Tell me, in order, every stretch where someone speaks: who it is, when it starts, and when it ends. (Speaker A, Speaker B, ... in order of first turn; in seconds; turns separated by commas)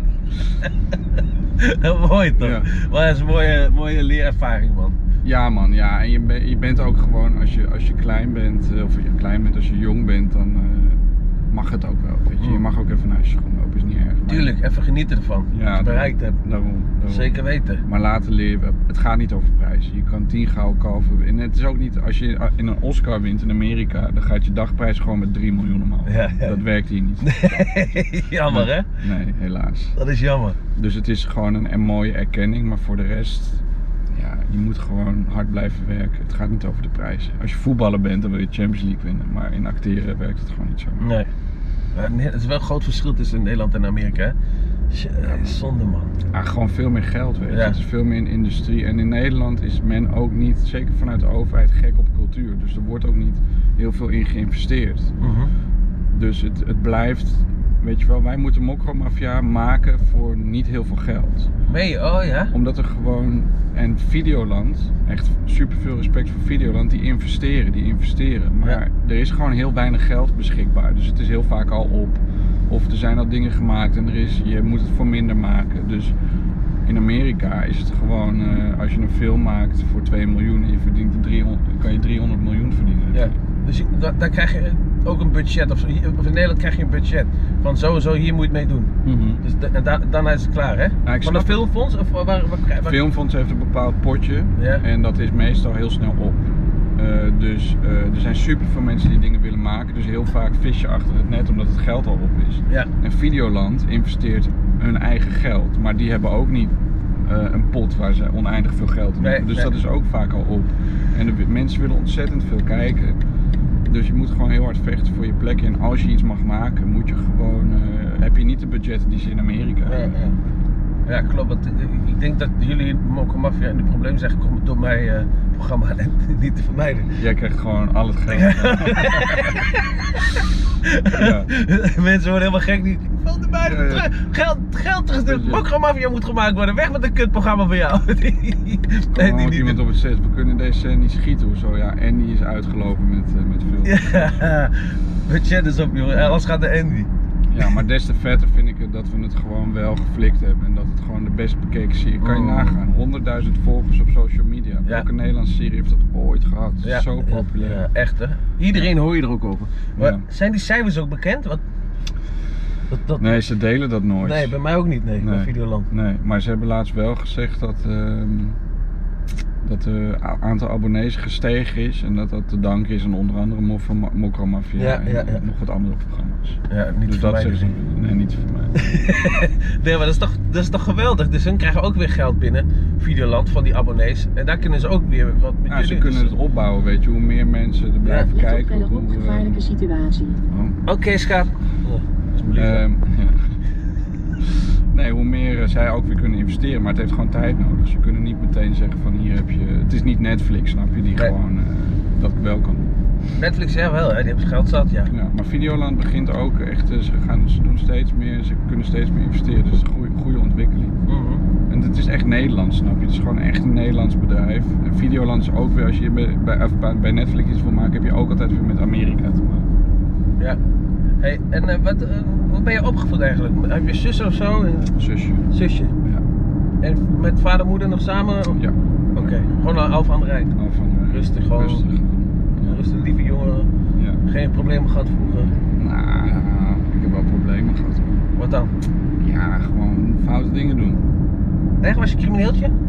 Speaker A: 1.6-5.0, Speaker B: 2.4-2.7, Speaker B: 5.2-14.5, Speaker A: 14.3-16.4, Speaker B: 15.5-27.7, Speaker A: 17.1-17.8, Speaker A: 26.1-26.6, Speaker A: 27.2-28.9, Speaker B: 28.5-30.0, Speaker A: 29.9-30.6, Speaker B: 30.8-41.1, Speaker A: 41.0-41.3, Speaker A: 41.9-44.4, Speaker A: 44.9-46.1, Speaker B: 45.2-45.5, Speaker B: 46.3-55.2, Speaker A: 47.5-47.8, Speaker A: 55.2-55.5, Speaker B: 56.1-61.5, Speaker A: 61.7-62.5, Speaker B: 62.5-76.1, Speaker B: 76.8-83.3, Speaker A: 83.1-93.0, Speaker B: 89.0-89.4, Speaker B: 91.0-91.6, Speaker B: 92.8-106.7, Speaker A: 94.6-94.8, Speaker B: 107.2-113.2, Speaker A: 109.2-109.7, Speaker B: 113.9-120.1, Speaker A: 119.9-120.4, Speaker A: 121.1-127.1, Speaker B: 127.2-129.6, Speaker A: 128.3-139.8, Speaker B: 131.1-131.5, Speaker B: 133.6-134.1, Speaker B: 135.2-135.6, Speaker B: 139.1-144.5, Speaker A: 143.8-147.1, Speaker B: 147.5-157.8, Speaker A: 152.2-152.8, Speaker A: 156.8-161.6, Speaker B: 160.0-160.3, Speaker A: 162.9-163.4, Speaker B: 163.2-164.6, Speaker A: 164.2-165.9, Speaker B: 165.2-168.6, Speaker B: 169.6-178.9, Speaker A: 174.8-175.4, Speaker A: 176.7-177.7, Speaker A: 178.8-186.3, Speaker B: 185.7-189.7, Speaker A: 188.0-188.3, Speaker C: 188.1-190.4, Speaker B: 190.5-190.8, Speaker A: 190.9-192.8, Speaker B: 192.6-193.6, Speaker B: 194.4-202.9, Speaker A: 203.4-205.1, Speaker B: 205.1-211.0, Speaker A: 211.1-211.4, Speaker B: 211.7-219.7, Speaker A: 221.2-224.9, Speaker B: 224.9-225.5, Speaker A: 225.5-225.9, Speaker A: 226.8-228.6, Speaker B: 228.5-229.3, Speaker A: 229.1-230.5, Speaker B: 230.6-232.8, Speaker A: 231.1-231.8, Speaker A: 232.6-233.7, Speaker B: 233.9-234.2, Speaker A: 234.3-235.6, Speaker B: 235.8-238.3, Speaker A: 238.4-238.7, Speaker B: 239.2-241.0, Speaker A: 241.8-242.7